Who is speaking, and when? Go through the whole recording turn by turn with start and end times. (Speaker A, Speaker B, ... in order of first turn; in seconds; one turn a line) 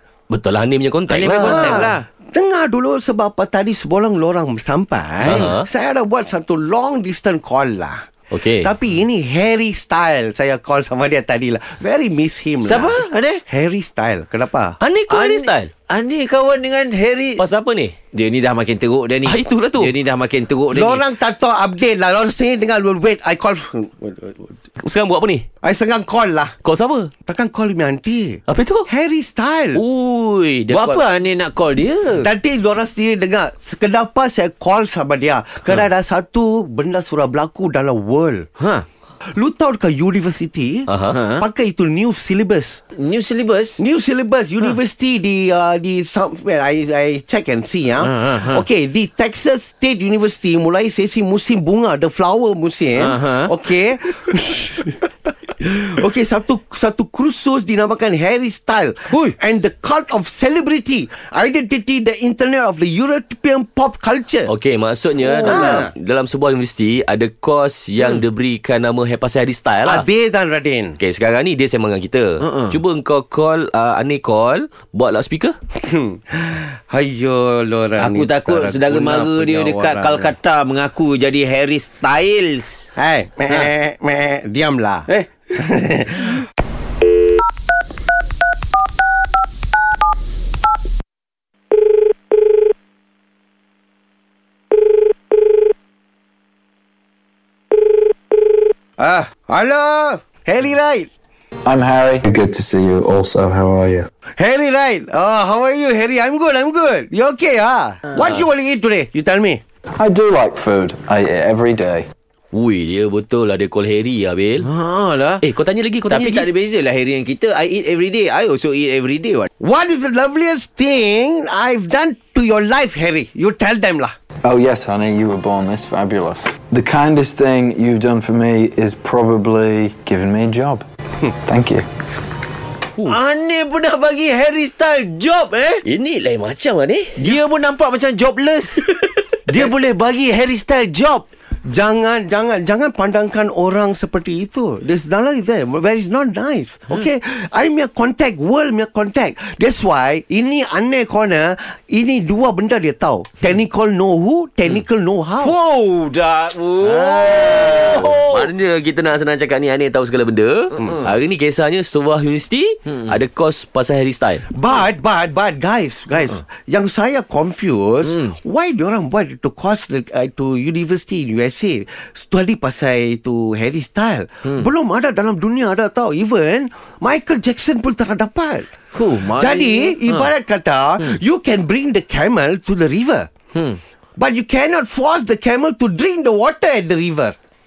Speaker A: 0.3-1.9
Speaker B: 1.1-2.0
Speaker C: 1.4-8.1
Speaker A: 5.2-5.7
Speaker B: 5.2-5.5
Speaker A: 8.3-8.7
Speaker C: 8.6-14.8
Speaker B: 12.6-13.4
Speaker A: 14.8-15.7
Speaker B: 15.1-17.4
Speaker A: 17.4-17.9
Speaker B: 18.1-21.0
Speaker A: 19.2-19.9
Speaker C: 20.7-24.5
Speaker A: 24.8-25.4
Speaker C: 25.6-26.5
Speaker A: 26.6-27.1
Speaker C: 27.2-29.8
Speaker A: 28.5-28.9
Speaker A: 29.7-31.0
Speaker B: 30.7-32.3
Speaker C: 32.2-38.5
Speaker B: 38.6-38.9
Speaker C: 39.3-42.8
Speaker A: 40.9-41.2
Speaker B: 41.1-41.4
Speaker B: 42.9-43.8
Speaker C: 43.8-55.0
Speaker B: 48.0-48.6
Speaker B: 53.0-53.5
Speaker C: 55.6-64.5
Speaker A: 64.5-70.0
Speaker C: 65.4-65.9
Speaker B: 65.4-65.8
Speaker C: 69.8-71.0
Speaker A: 71.0-75.5
Speaker B: 72.4-72.8
Speaker C: 75.8-80.3
Speaker B: 78.0-82.9
Speaker C: 83.0-86.4
Speaker C: 99.0-101.1
Speaker D: 101.6-104.1
Speaker C: 104.4-109.6
Speaker D: 109.9-112.1
Speaker A: 112.5-114.7
Speaker B: 114.6-115.4
Speaker A: 115.4-116.5
Speaker B: 116.1-119.5
Speaker C: 119.6-124.1
Speaker D: 124.4-130.8
Speaker D: 131.4-131.8
Speaker B: 133.0-135.8
Speaker A: 135.8-137.3
Speaker B: 137.2-138.8
Speaker A: 138.8-139.7
Speaker B: 139.5-141.2
Speaker C: 141.7-155.5
Speaker B: 155.4-158.5
Speaker A: 156.8-164.4
Speaker C: 164.5-178.7
Speaker B: 178.9-180.3
Speaker C: 179.3-183.3
Speaker C: 184.2-187.3